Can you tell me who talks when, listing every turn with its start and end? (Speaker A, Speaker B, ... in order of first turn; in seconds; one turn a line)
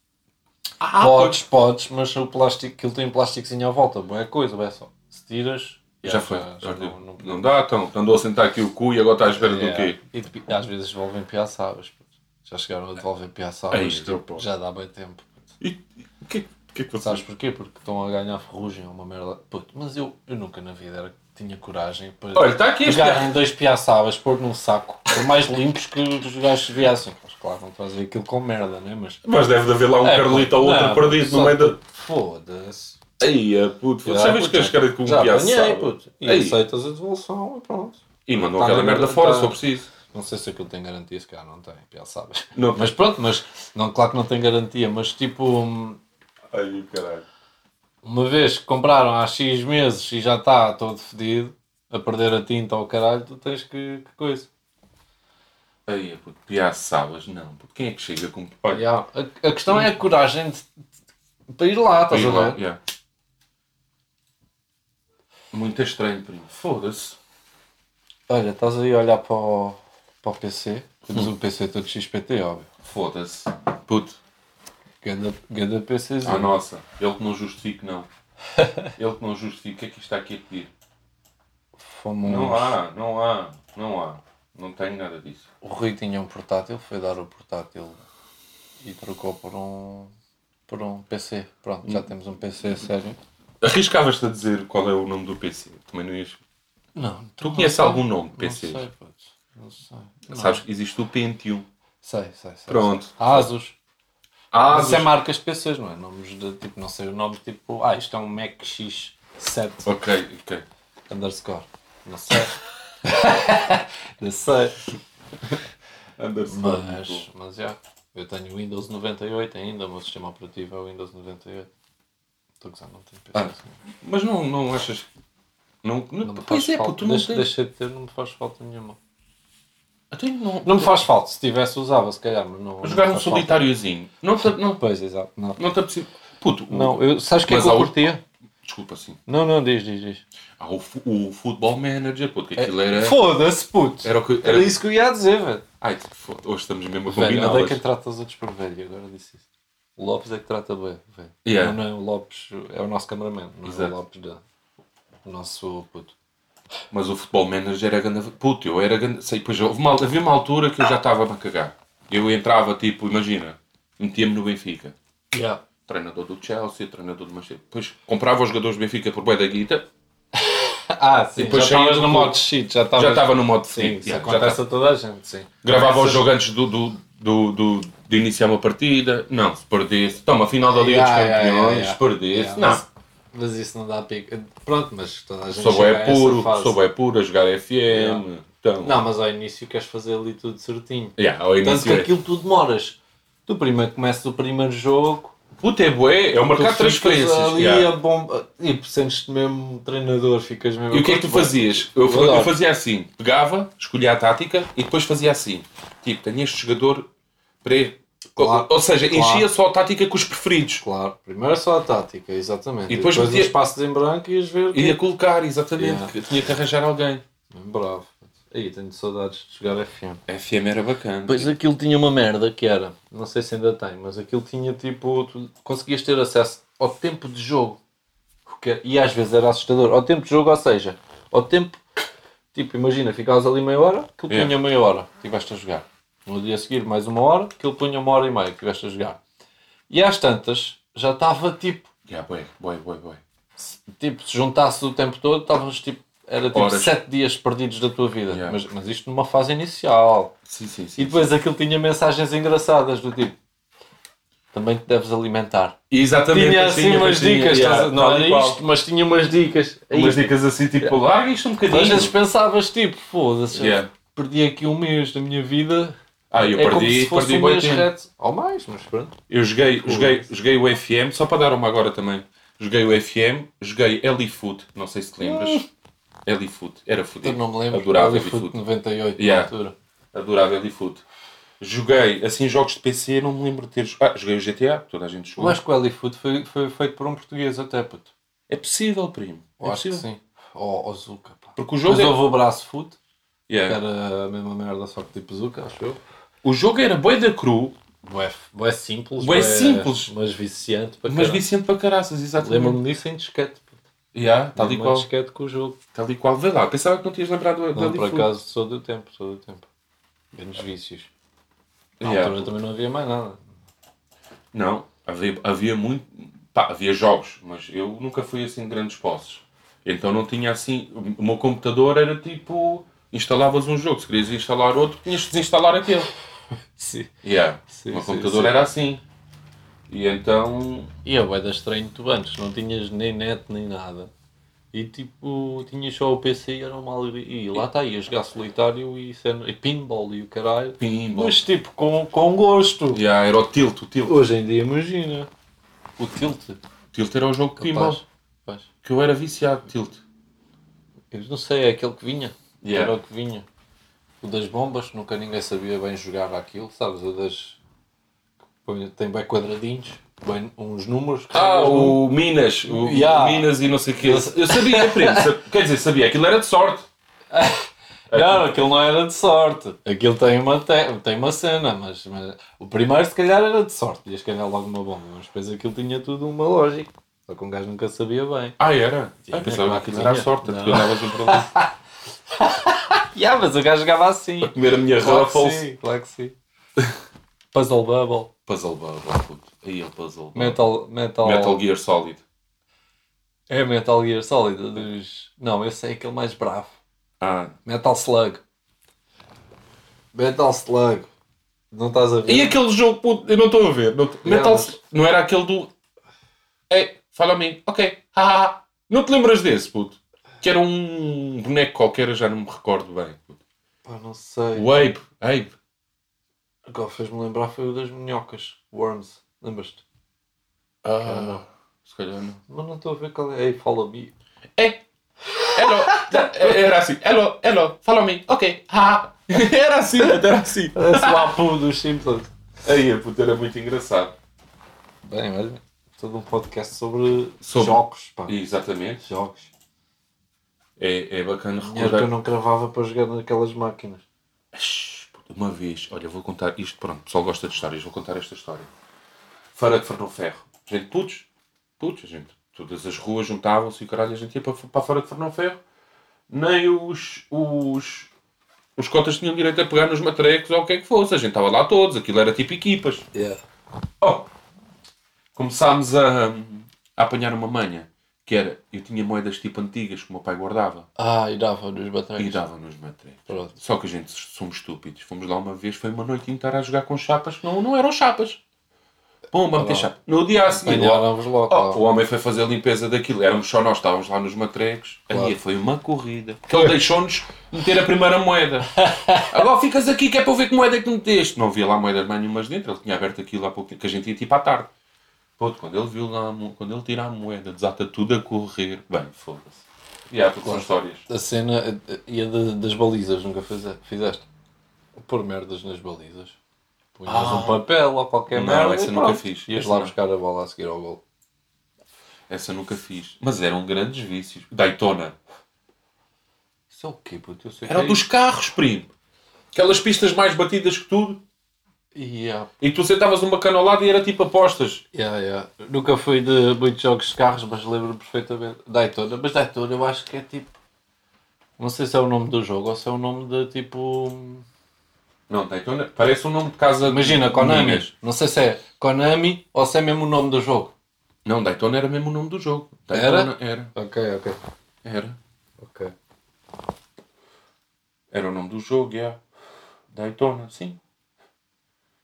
Speaker A: 0.8-1.4
Speaker B: 1.0-7.5
Speaker A: 6.0-10.0
Speaker B: 9.3-15.3
Speaker A: 13.7-14.4
Speaker A: 15.6-17.2
Speaker B: 17.0-29.2
Speaker A: 22.3-23.3
Speaker A: 29.2-31.8
Speaker B: 30.0-33.0
Speaker A: 33.2-36.6
Speaker B: 34.0-46.0
Speaker A: 38.3-39.9
Speaker A: 42.5-43.0
Speaker A: 46.5-47.3
Speaker B: 48.0-54.5
Speaker A: 55.9-58.8
Speaker B: 58.7-60.7
Speaker A: 59.7-60.0
Speaker B: 61.6-62.6
Speaker A: 62.1-62.8
Speaker A: 65.5-67.2
Speaker B: 68.3-72.7
Speaker A: 72.8-74.2
Speaker B: 75.0-76.6
Speaker A: 76.2-78.1
Speaker A: 79.0-80.7
Speaker B: 81.8-82.8
Speaker A: 82.2-85.5
Speaker B: 85.6-88.0
Speaker B: 88.8-90.1
Speaker B: 90.7-93.2
Speaker A: 93.6-96.4
Speaker B: 97.0-100.6
Speaker A: 97.4-98.8
Speaker A: 100.3-101.7
Speaker B: 102.0-103.8
Speaker A: 102.7-103.5
Speaker A: 104.5-105.1
Speaker B: 104.7-109.9
Speaker A: 109.8-110.6
Speaker B: 111.1-114.9
Speaker A: 116.2-117.2
Speaker B: 116.5-121.7
Speaker B: 122.6-123.8
Speaker A: 123.3-125.1
Speaker A: 125.8-127.5
Speaker B: 126.2-129.0
Speaker A: 130.1-131.0
Speaker B: 130.6-133.7
Speaker A: 132.8-134.8
Speaker B: 134.4-135.6
Speaker A: 135.6-138.0
Speaker B: 136.7-138.2
Speaker A: 138.6-139.2
Speaker B: 139.3-140.2
Speaker A: 140.6-143.2
Speaker B: 142.6-145.6
Speaker A: 144.0-144.7
Speaker A: 145.8-147.8
Speaker B: 147.1-149.4
Speaker B: 150.0-154.4
Speaker A: 151.4-151.8
Speaker A: 153.7-153.9
Speaker B: 155.2-156.2
Speaker A: 156.9-164.9
Speaker B: 165.3-165.6
Speaker A: 165.9-169.8
Speaker B: 170.4-176.3
Speaker A: 171.4-172.4
Speaker A: 172.9-174.6
Speaker A: 175.6-182.8
Speaker B: 180.7-186.8
Speaker A: 185.5-189.0
Speaker B: 187.9-188.2
Speaker B: 188.8-195.3
Speaker A: 191.2-192.1
Speaker A: 195.6-197.9
Speaker B: 196.6-202.6
Speaker A: 200.9-207.1
Speaker A: 207.6-210.8
Speaker B: 208.4-209.5
Speaker B: 210.8-215.0
Speaker A: 212.9-213.6
Speaker A: 214.7-217.2
Speaker B: 215.8-216.1
Speaker B: 217.5-220.2
Speaker A: 220.3-221.5
Speaker B: 221.3-227.8
Speaker B: 228.5-231.8
Speaker B: 232.5-239.2
Speaker B: 239.9-241.9
Speaker A: 242.1-243.2
Speaker B: 243.6-250.3
Speaker A: 246.5-247.0
Speaker A: 248.3-248.6
Speaker A: 250.5-251.3
Speaker B: 251.0-253.4
Speaker B: 254.5-255.8
Speaker A: 255.9-258.6
Speaker B: 256.3-260.9
Speaker A: 259.9-262.1
Speaker B: 261.7-269.2
Speaker A: 263.5-263.9
Speaker A: 266.3-267.9
Speaker A: 269.3-275.7
Speaker B: 269.8-270.2
Speaker B: 275.2-275.7
Speaker A: 276.3-278.6
Speaker B: 277.2-279.8
Speaker A: 279.2-279.5
Speaker A: 280.1-281.0
Speaker A: 281.6-285.6
Speaker B: 285.4-288.1
Speaker A: 288.5-290.1
Speaker B: 289.6-293.0
Speaker A: 291.6-292.2
Speaker A: 293.5-293.8
Speaker B: 293.7-296.0
Speaker A: 296.4-297.8
Speaker B: 298.0-301.4
Speaker A: 299.2-300.1
Speaker A: 301.1-302.8
Speaker B: 302.4-303.8
Speaker A: 304.1-305.1
Speaker B: 304.6-305.8
Speaker A: 305.9-308.3
Speaker B: 307.7-309.7
Speaker B: 310.3-311.1
Speaker A: 312.0-312.5
Speaker B: 312.0-313.4
Speaker A: 314.5-326.1
Speaker B: 326.8-327.1
Speaker A: 327.2-329.0
Speaker B: 327.7-328.6
Speaker A: 329.9-330.9
Speaker B: 331.0-334.1
Speaker B: 334.7-343.0
Speaker A: 340.8-341.4
Speaker A: 342.9-344.2
Speaker B: 344.1-345.3
Speaker B: 346.0-346.6
Speaker A: 346.9-348.0
Speaker B: 347.6-348.7
Speaker A: 348.8-350.0
Speaker B: 351.1-353.5
Speaker A: 352.6-353.0
Speaker B: 354.2-357.6
Speaker B: 358.6-362.0
Speaker A: 361.3-366.9
Speaker B: 362.6-365.3
Speaker B: 367.3-378.6
Speaker A: 368.1-368.6
Speaker A: 378.6-381.5
Speaker B: 379.3-381.7
Speaker B: 382.4-386.4
Speaker A: 384.4-385.6
Speaker B: 387.5-388.3
Speaker A: 388.5-390.7
Speaker B: 390.3-391.6
Speaker A: 391.2-392.2
Speaker B: 393.5-396.8
Speaker A: 397.2-397.6
Speaker B: 397.6-398.4
Speaker B: 400.1-401.1
Speaker B: 401.7-402.6
Speaker A: 402.3-405.7
Speaker B: 404.2-404.8
Speaker A: 406.7-413.4
Speaker B: 413.9-414.9
Speaker A: 414.6-415.5
Speaker B: 416.7-419.8
Speaker A: 420.8-422.4
Speaker B: 421.0-421.4
Speaker B: 422.5-424.1
Speaker A: 424.6-424.8
Speaker B: 425.4-426.4
Speaker A: 425.5-431.3
Speaker B: 430.8-432.3
Speaker A: 432.6-434.1
Speaker B: 435.0-438.4
Speaker A: 437.4-439.0
Speaker B: 439.0-439.5
Speaker A: 440.8-442.1
Speaker B: 441.6-444.1
Speaker A: 444.5-448.7
Speaker A: 449.6-451.3
Speaker A: 451.8-455.6
Speaker A: 456.3-458.1
Speaker A: 458.8-463.1
Speaker B: 463.1-463.4
Speaker A: 464.0-464.3
Speaker A: 465.4-470.9
Speaker B: 471.0-472.4
Speaker A: 472.2-478.4
Speaker B: 473.3-473.6
Speaker A: 479.3-494.7
Speaker B: 479.6-479.9
Speaker B: 480.5-481.8
Speaker B: 485.1-485.4
Speaker B: 488.8-489.3
Speaker A: 495.4-501.0
Speaker B: 500.4-504.2
Speaker B: 505.0-506.4
Speaker B: 507.0-511.0
Speaker A: 507.1-507.6
Speaker A: 508.3-509.9
Speaker A: 512.3-515.1
Speaker B: 516.7-518.0
Speaker A: 517.7-518.9
Speaker A: 519.5-521.2
Speaker B: 522.0-522.5
Speaker A: 522.6-524.8
Speaker B: 524.9-530.6
Speaker B: 531.6-534.5
Speaker A: 535.3-537.9
Speaker B: 536.8-540.7
Speaker A: 541.2-543.7
Speaker B: 542.9-544.4
Speaker A: 544.8-545.2
Speaker B: 545.6-545.9
Speaker A: 548.1-549.2
Speaker A: 549.9-550.8